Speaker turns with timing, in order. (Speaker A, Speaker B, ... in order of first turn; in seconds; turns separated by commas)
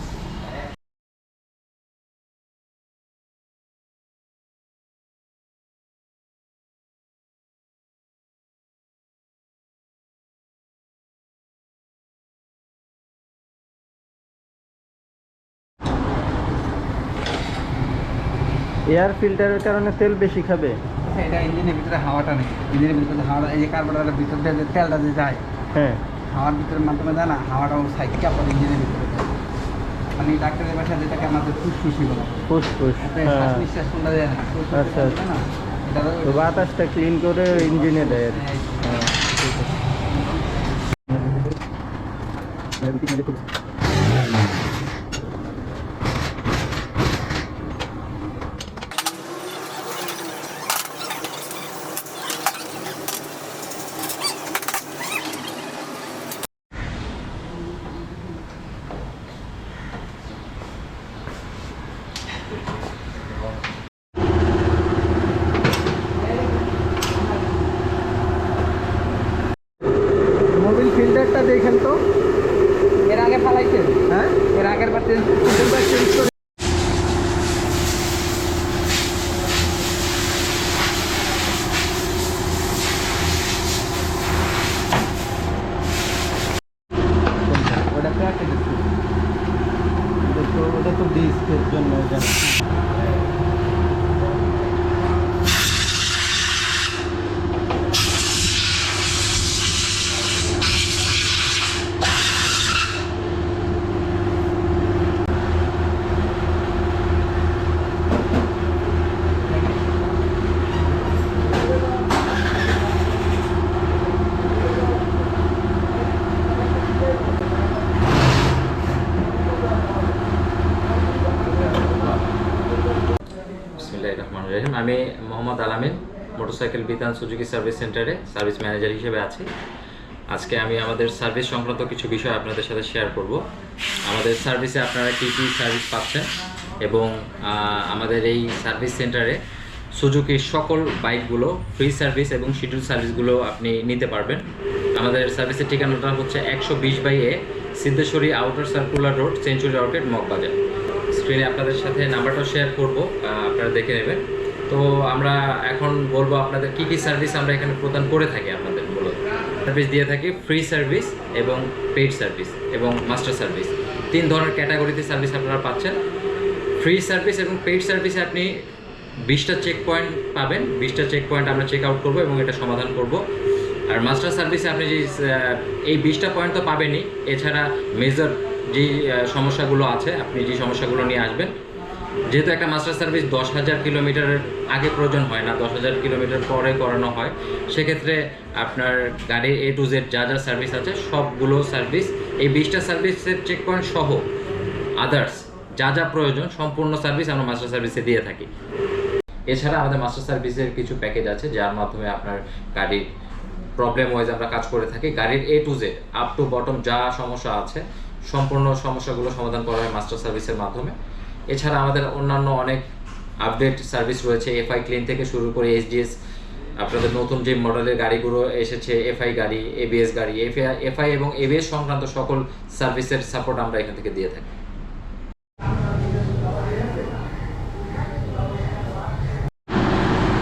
Speaker A: 18.9-20.8, Speaker B: 21.1-25.4, Speaker A: 25.8-26.0, Speaker B: 26.3-29.3, Speaker B: 30.2-32.4, Speaker A: 32.5-33.6, Speaker B: 33.0-36.8, Speaker A: 34.7-35.2, Speaker A: 36.2-39.7, Speaker B: 37.5-39.1, Speaker A: 42.8-43.3, Speaker A: 70.5-72.0, Speaker B: 73.0-75.6, Speaker A: 74.1-74.4, Speaker A: 75.5-76.3, Speaker B: 87.5-88.9, Speaker A: 90.2-92.3, Speaker C: 123.8-129.5, Speaker C: 130.3-133.4, Speaker C: 134.1-136.3, Speaker C: 136.8-139.4, Speaker C: 140.0-144.4, Speaker C: 144.9-150.6, Speaker C: 151.1-166.0, Speaker C: 166.8-168.5, Speaker C: 169.3-173.2, Speaker C: 173.9-181.5, Speaker C: 182.3-194.2, Speaker C: 195.0-198.5, Speaker C: 199.5-203.1, Speaker C: 203.8-210.9, Speaker C: 211.5-212.8, Speaker C: 213.4-216.1, Speaker C: 216.8-224.6